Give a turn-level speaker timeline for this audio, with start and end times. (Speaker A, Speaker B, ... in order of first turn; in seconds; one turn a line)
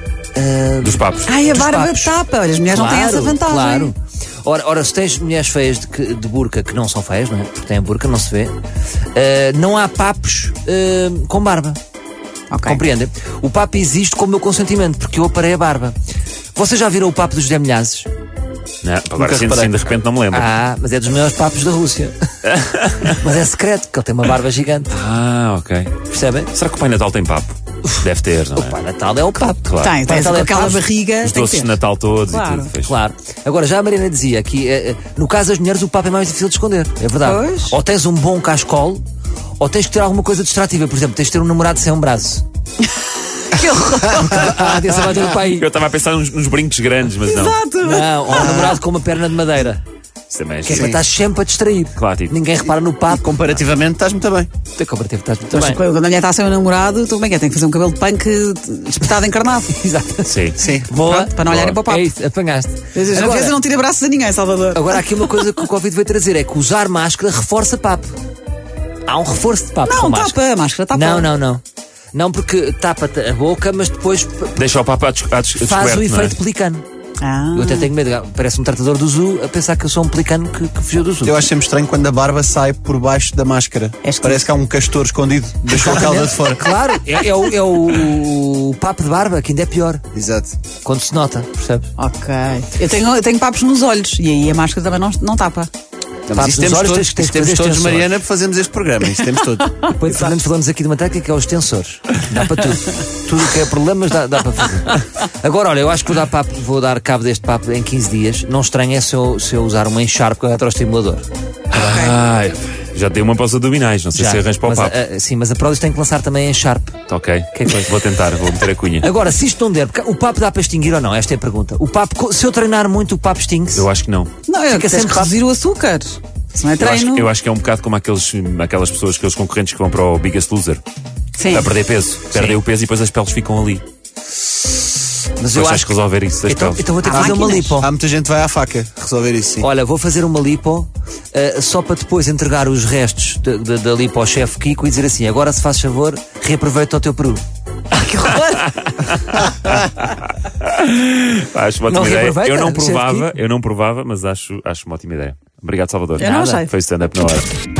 Speaker A: 0.3-2.1
Speaker B: 0.8-1.4
Speaker C: 1.2-3.9
Speaker A: 2.7-8.5
Speaker A: 9.1-11.8
Speaker C: 12.5-12.8
Speaker A: 12.6-15.9
Speaker A: 16.5-18.1
Speaker B: 18.8-20.5
Speaker D: 19.1-19.7
Speaker A: 20.3-22.1
Speaker B: 22.5-23.2
Speaker A: 23.1-24.9
Speaker B: 24.9-26.0
Speaker A: 26.1-26.5
Speaker B: 26.5-28.8
Speaker A: 28.5-30.8
Speaker B: 29.6-30.0
Speaker C: 29.8-31.7
Speaker B: 31.2-33.0
Speaker C: 32.3-32.7
Speaker A: 32.8-39.0
Speaker C: 37.2-37.8
Speaker A: 39.6-42.4
Speaker C: 43.4-44.8
Speaker A: 44.0-45.7
Speaker B: 45.1-47.6
Speaker C: 47.3-48.6
Speaker A: 47.8-49.8
Speaker D: 48.3-48.8
Speaker B: 50.3-51.0
Speaker A: 50.6-53.3
Speaker D: 50.7-51.0
Speaker B: 52.0-52.4
Speaker D: 53.1-54.5
Speaker A: 54.7-55.8
Speaker C: 55.5-59.8
Speaker A: 59.7-63.6
Speaker B: 60.2-60.6
Speaker D: 60.6-60.9
Speaker C: 60.9-62.1
Speaker B: 61.5-61.8
Speaker C: 62.9-65.5
Speaker A: 64.7-68.1
Speaker A: 69.0-70.4
Speaker C: 69.8-71.3
Speaker A: 70.9-71.6
Speaker A: 72.1-74.6
Speaker B: 74.5-76.3
Speaker A: 75.6-76.8
Speaker C: 77.2-77.9
Speaker A: 77.5-81.4
Speaker D: 81.2-86.7
Speaker C: 84.0-84.5
Speaker A: 85.7-90.0
Speaker D: 90.1-90.5
Speaker A: 90.8-91.9
Speaker C: 92.0-95.7
Speaker D: 96.3-99.7
Speaker A: 96.3-98.1
Speaker A: 99.8-111.3
Speaker C: 111.7-112.2
Speaker B: 111.7-115.0
Speaker A: 114.1-117.0
Speaker B: 117.1-119.1
Speaker A: 117.5-118.0
Speaker A: 119.0-123.9
Speaker B: 123.7-124.3
Speaker C: 124.5-127.3
Speaker A: 124.7-125.3
Speaker B: 126.8-130.8
Speaker C: 131.4-131.7
Speaker B: 131.5-133.8
Speaker A: 132.3-132.6
Speaker A: 135.4-135.9
Speaker B: 135.5-136.8
Speaker A: 136.4-137.9
Speaker C: 137.0-137.8
Speaker D: 137.1-139.7
Speaker A: 139.6-147.4
Speaker A: 148.0-148.5
Speaker B: 148.3-157.5
Speaker A: 151.9-153.3
Speaker C: 156.2-156.7
Speaker A: 156.2-156.6